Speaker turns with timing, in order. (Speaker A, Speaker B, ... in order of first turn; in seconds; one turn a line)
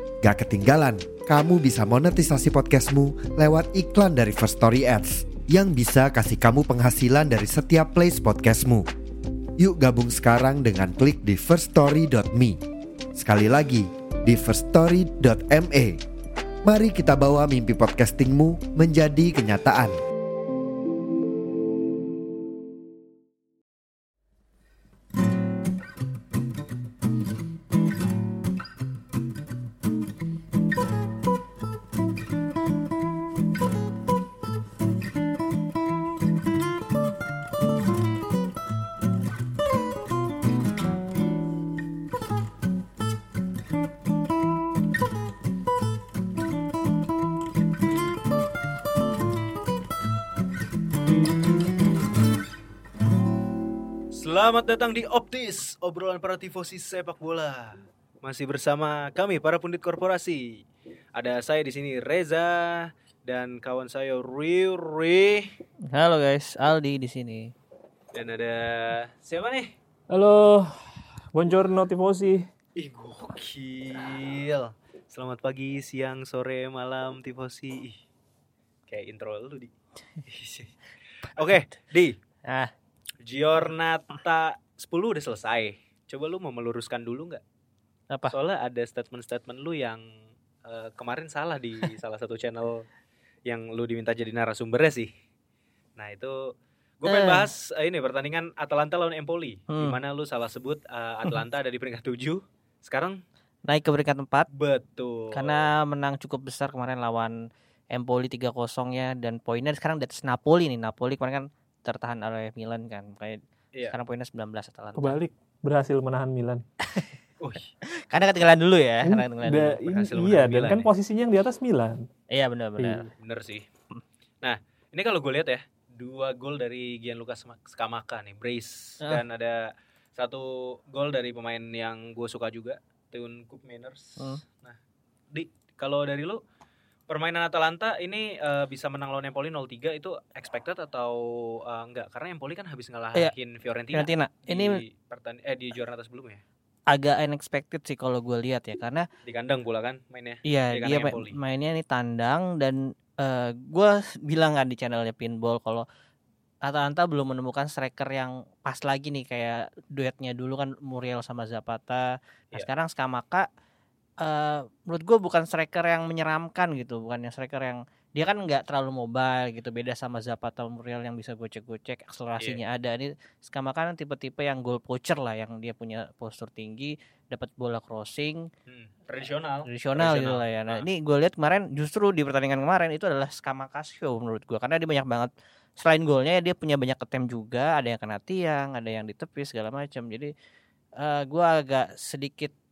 Speaker A: 0.2-8.9
Speaker A: 9.6-12.6
Speaker A: 13.1-16.0
Speaker A: 16.6-20.0
Speaker B: 54.1-60.6
Speaker B: 61.1-65.5
Speaker C: 65.9-67.5
Speaker B: 68.1-69.7
Speaker D: 70.1-70.8
Speaker D: 71.3-72.5
Speaker B: 72.8-78.0
Speaker B: 78.9-79.7
Speaker B: 80.2-82.2
Speaker C: 82.4-82.7
Speaker B: 83.2-87.4
Speaker B: 88.3-90.0
Speaker B: 90.6-92.8
Speaker B: 93.5-95.1
Speaker B: 96.0-96.5
Speaker B: 97.0-103.2
Speaker C: 97.0-97.5
Speaker C: 99.7-100.0
Speaker C: 103.7-104.5
Speaker B: 104.5-105.7
Speaker C: 105.3-107.3
Speaker C: 107.9-115.2
Speaker D: 115.0-116.6
Speaker C: 116.8-117.1
Speaker B: 117.4-117.7
Speaker C: 117.8-119.8
Speaker D: 119.0-122.1
Speaker B: 119.8-120.9
Speaker C: 122.3-123.1
Speaker D: 122.8-123.1
Speaker B: 123.2-123.6
Speaker B: 124.4-134.8
Speaker B: 135.3-136.4
Speaker B: 137.1-146.4
Speaker C: 143.9-144.8
Speaker C: 146.9-149.1
Speaker B: 149.2-151.3
Speaker C: 150.4-155.8
Speaker C: 156.6-163.5
Speaker C: 164.2-178.5
Speaker B: 178.7-180.8
Speaker C: 179.6-190.3
Speaker C: 191.0-192.5